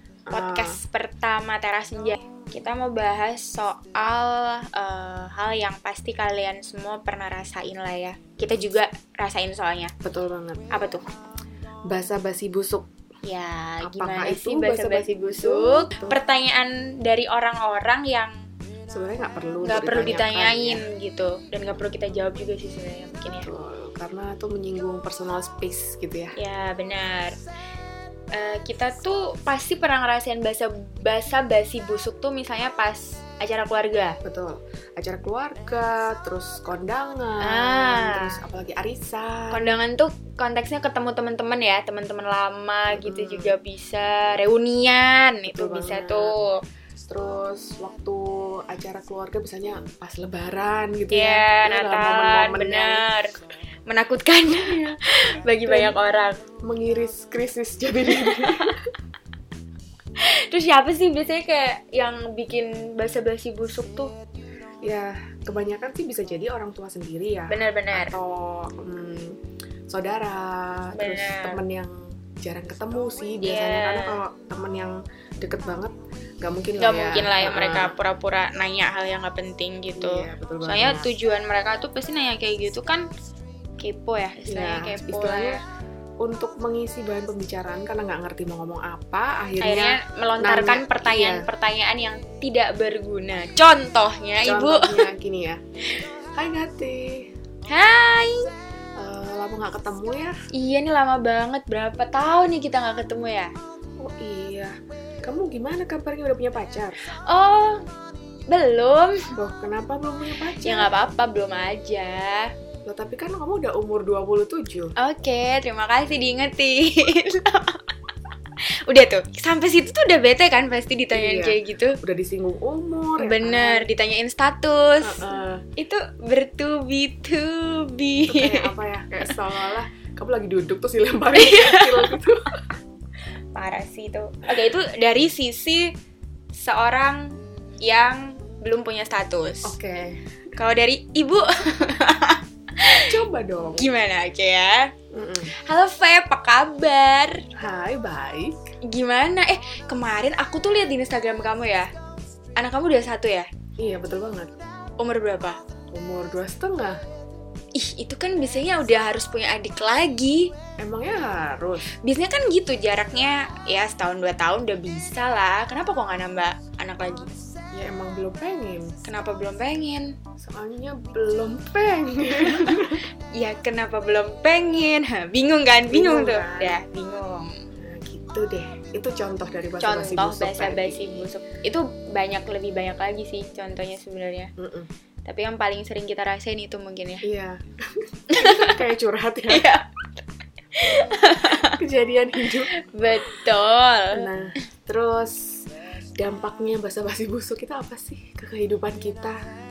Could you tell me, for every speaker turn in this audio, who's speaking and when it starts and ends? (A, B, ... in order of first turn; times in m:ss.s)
0:00.3-0:00.8 A
0:00.3-0:09.9 B
0:10.0-0:10.6 A
0:10.7-0:11.1 B
0:11.9-0:12.9 A
0:13.2-0:18.3 B
0:13.8-0:16.2 A
0:18.9-0:20.8 A
0:19.6-0:23.5 B
0:23.3-0:26.3 A
0:26.4-0:27.4 B
0:28.3-0:34.2 B
0:34.2-0:39.8 A
0:37.4-0:38.4 B
0:39.5-0:46.6 B
0:42.9-0:43.6 A
0:45.5-0:46.4 A
0:47.0-0:53.1 A
0:51.1-0:53.3 B
0:53.9-0:56.4 B
0:55.6-0:56.0 A
0:56.6-0:58.8 A
0:58.3-0:58.6 B
1:00.2-1:04.1 B
1:04.8-1:09.4 A
1:07.5-1:08.2 B
1:09.9-1:17.9 A
1:11.0-1:11.6 B
1:13.4-1:14.2 B
1:16.8-1:23.1 B
1:20.0-1:21.1 A
1:23.8-1:25.6 B
1:24.5-1:25.6 A
1:26.2-1:31.5 A
1:29.6-1:35.1 B
1:34.4-1:35.6 A
1:36.4-1:37.3 A
1:37.7-1:38.5 B
1:39.0-1:40.4 A
1:40.5-1:43.5 B
1:44.0-1:47.0 A
1:47.2-1:47.8 B
1:48.5-1:49.3 B
1:49.4-1:50.9 A
1:50.6-1:52.5 B
1:52.8-1:55.0 A
1:55.0-1:57.9 B
1:58.6-2:02.0 B
2:01.1-2:03.9 A
2:03.2-2:09.4 B
2:05.0-2:05.6 A
2:08.2-2:12.6 A
2:11.3-2:12.2 B
2:13.5-2:15.9 B
2:16.6-2:19.8 B
2:19.6-2:20.2 A
2:20.6-2:23.1 B
2:23.1-2:23.9 A
2:23.8-2:24.9 B
2:25.1-2:25.5 A
2:25.6-2:27.4 B
2:27.6-2:28.6 A
2:28.9-2:31.9 B
2:32.6-2:33.5 B
2:33.8-2:34.5 A
2:35.0-2:35.6 B
2:35.9-2:37.0 A
2:37.8-2:40.5 B
2:40.8-2:41.9 A
2:41.9-2:47.3 B
2:47.7-2:49.0 A
2:49.0-2:50.2 B
2:50.4-2:53.0 A
2:52.4-2:57.6 B
2:55.9-2:56.8 A
2:57.8-3:01.2 A
2:59.8-3:04.5 B
3:04.6-3:04.9 A
3:05.3-3:07.3 B
3:07.2-3:09.8 A
3:08.3-3:08.8 B
3:09.5-3:09.8 B
3:10.8-3:11.8 B
3:11.5-3:12.7 A
3:12.4-3:14.3 B
3:14.1-3:19.4 A